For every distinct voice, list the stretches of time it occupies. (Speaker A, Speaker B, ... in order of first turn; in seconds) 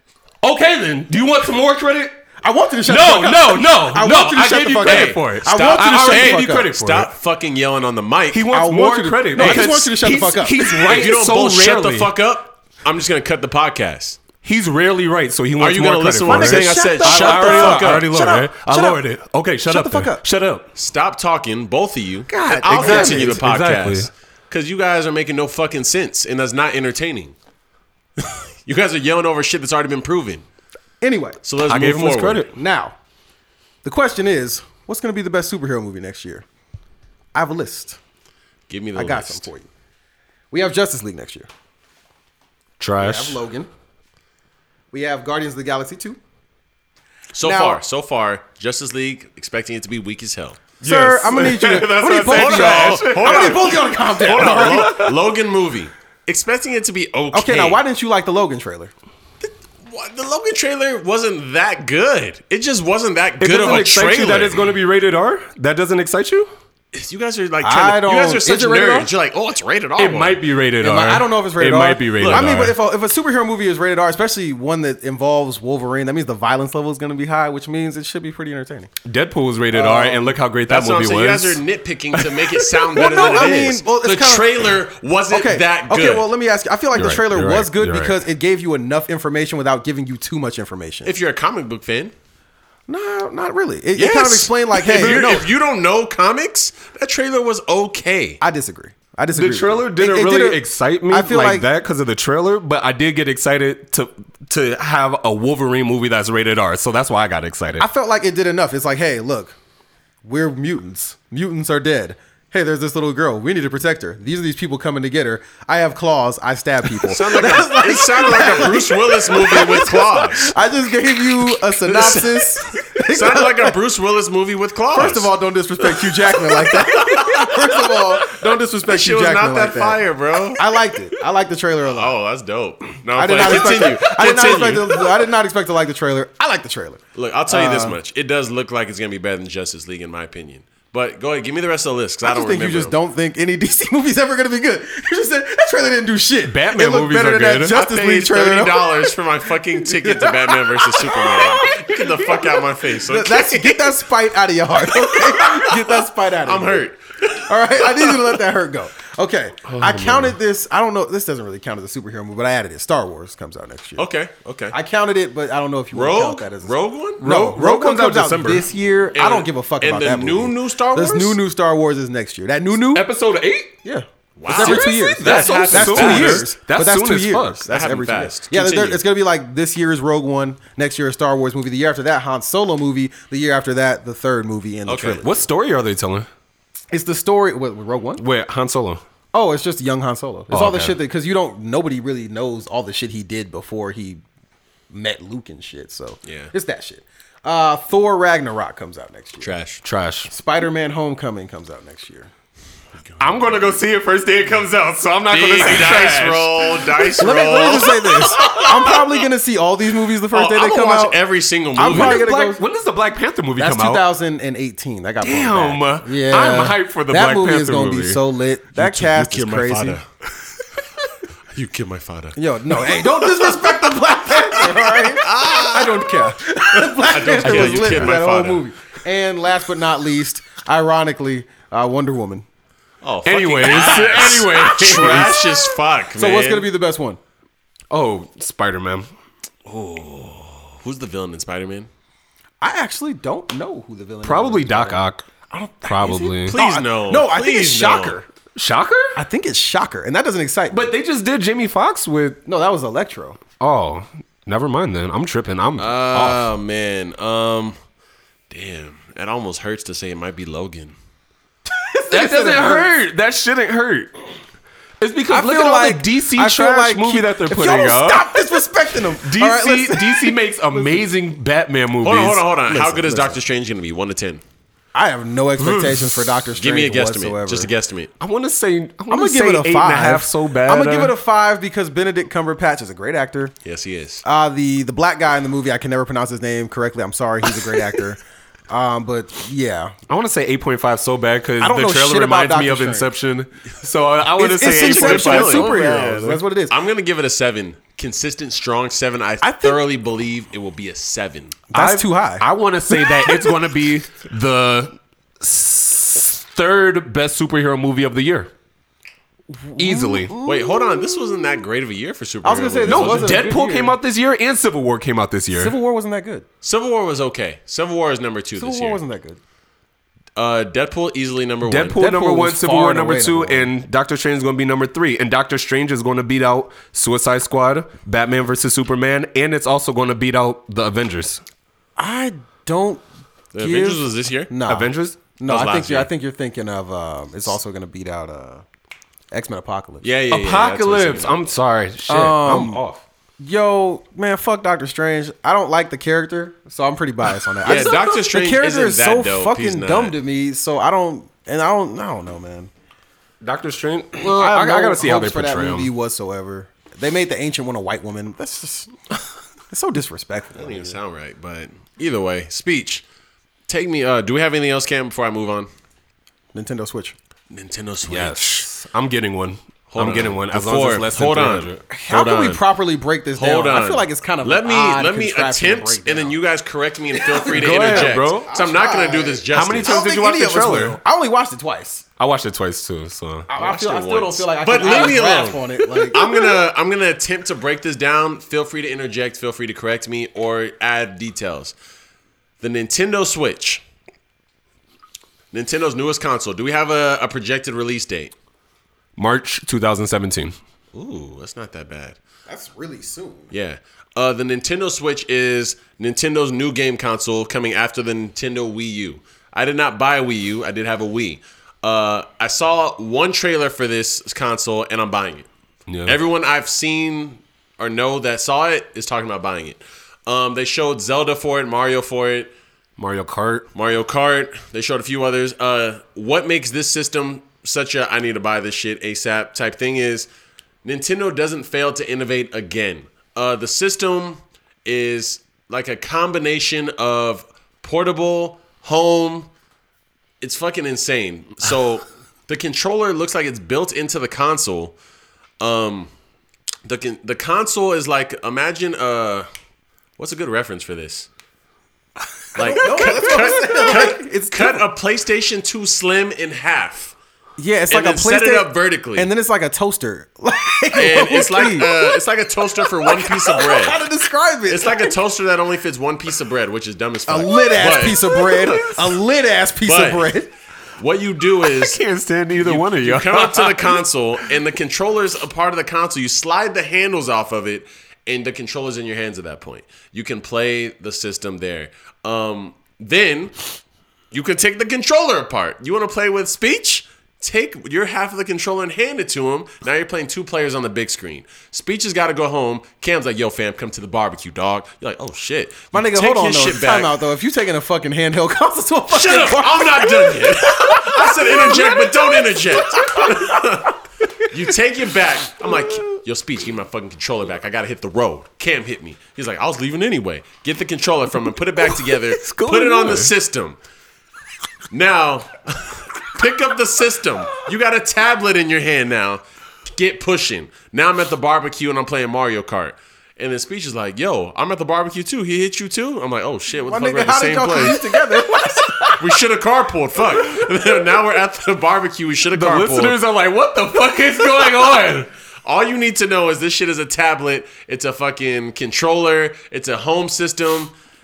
Speaker A: 0.4-2.1, 2.9-7.1, 8.3-12.1, 14.4-20.7, 22.4-24.1, 31.7-32.5, 42.8-43.4, 50.8-55.1, 63.4-66.5, 70.0-72.8, 79.0-81.6, 82.1-82.7, 87.0-88.2, 95.0-95.3, 99.3-107.9, 146.4-147.8, 159.7-160.4, 167.2-168.7, 172.9-173.8, 174.5-177.6, 185.2-186.3, 188.2-189.0, 190.5-191.0, 199.8-200.3, 203.2-206.9, 211.8-214.0, 215.2-218.2, 227.4-228.2, 233.2-235.7, 237.9-239.1, 244.2-245.3, 245.9-246.6, 248.6-249.2, 250.7-252.4, 253.6-256.5, 262.1-264.1, 265.0-268.4, 269.2-272.5, 275.6-276.3, 278.2-281.1, 290.1-296.4, 301.7-308.5, 309.8-310.4, 312.9-315.8, 321.6-331.4, 334.7-335.2, 340.3-343.0, 353.4-355.9, 368.1-371.8, 377.4-378.5, 379.5-381.0, 382.2-383.5, 386.2-386.4, 399.2-400.6, 415.9-416.2, 423.0-423.7, 468.3-469.1, 471.7-474.0, 511.8-513.3, 532.5-535.3
Speaker B: 2.4-6.7, 8.5-11.1, 16.2-19.0, 19.7-20.2, 22.3-23.4, 31.0-31.4, 32.5-33.0, 33.8-36.5, 37.3-38.0, 39.0-39.7, 40.5-41.5, 43.0-43.7, 44.9-46.2, 47.4-47.8, 50.8-55.0, 57.3-58.9, 67.6-69.1, 70.8-78.9, 79.7-80.4, 82.9-84.8, 85.3-91.1, 92.9-95.5, 98.4-101.7, 107.8-109.5, 110.2-123.8, 124.9-132.1, 133.1-138.0, 142.2-149.2, 149.8-164.1, 164.7-173.1, 173.8-185.4, 186.9-188.2, 189.3-194.2, 194.9-199.5, 200.3-202.3, 207.2-211.2, 211.8-212.6, 213.6-220.0, 222.4-232.5, 236.2-237.2, 242.6-248.3, 249.2-250.9, 252.5-253.4, 261.7-262.9, 265.3-271.0, 272.7-273.4, 274.9-277.7, 279.1-283.5, 284.2-289.9, 291.6-293.1, 294.4-296.8, 299.4-299.8, 301.7-303.6, 309.5-311.6, 312.4-314.0, 315.5-316.5, 318.6-319.4, 322.0-323.7, 332.0-333.0, 333.6-338.6, 339.3-340.1, 342.1-342.8, 343.4-352.7, 354.2-358.9, 359.7-361.0, 366.5-367.1, 371.9-376.4, 377.1-382.1, 383.5-386.3, 402.5-403.5, 452.6-454.9, 457.6-462.2, 462.9-465.2, 467.3-470.5, 495.9-503.8, 526.7-529.2
Speaker C: 4.8-8.4, 9.4-9.7, 10.9-14.2, 15.6-18.1, 20.8-27.4, 28.2-30.4, 31.4-32.5, 38.7-39.5, 47.3-50.6, 52.2-57.8, 59.4-64.7, 66.9-70.4, 72.2-72.6, 80.7-86.3, 91.0-92.1, 94.0-98.4, 117.0-120.5, 121.8-125.3, 125.9-130.6, 131.9-135.0, 137.2-143.0, 147.7-153.9, 155.1-155.8, 156.5-158.3, 164.0-164.8, 165.9-167.2, 169.2-171.4, 174.4-176.5, 177.7-179.0, 184.9-185.2, 196.2-196.5, 199.4-199.8, 203.1-203.8, 205.3-209.0, 210.3-212.2, 218.8-220.1, 221.5-226.1, 227.0-228.6, 233.0-236.7, 239.7-241.9, 246.5-248.2, 255.8-257.8, 258.5-261.0, 272.0-274.4, 276.6-278.1, 283.6-284.2, 294.7-301.6, 310.4-313.3, 316.6-319.0, 320.4-322.0, 333.5-334.5, 335.5-336.1, 340.0-341.4, 347.6-350.2, 360.6-363.0, 363.7-365.7, 367.5-368.7, 369.9-372.6, 373.4-380.0, 383.6-391.8, 392.6-393.8, 395.5-398.3, 400.9-402.2, 403.5-415.5, 416.1-422.5, 423.7-430.3, 430.8-439.5, 440.4-444.9, 445.6-446.1, 446.9-449.5, 450.2-451.3, 452.5-457.2, 457.9-459.3, 460.9-464.0, 464.7-468.5, 469.9-470.3, 471.0-472.0, 472.6-483.5, 484.3-497.1, 499.1-513.8, 514.9-528.0, 529.2-533.2, 535.6-540.9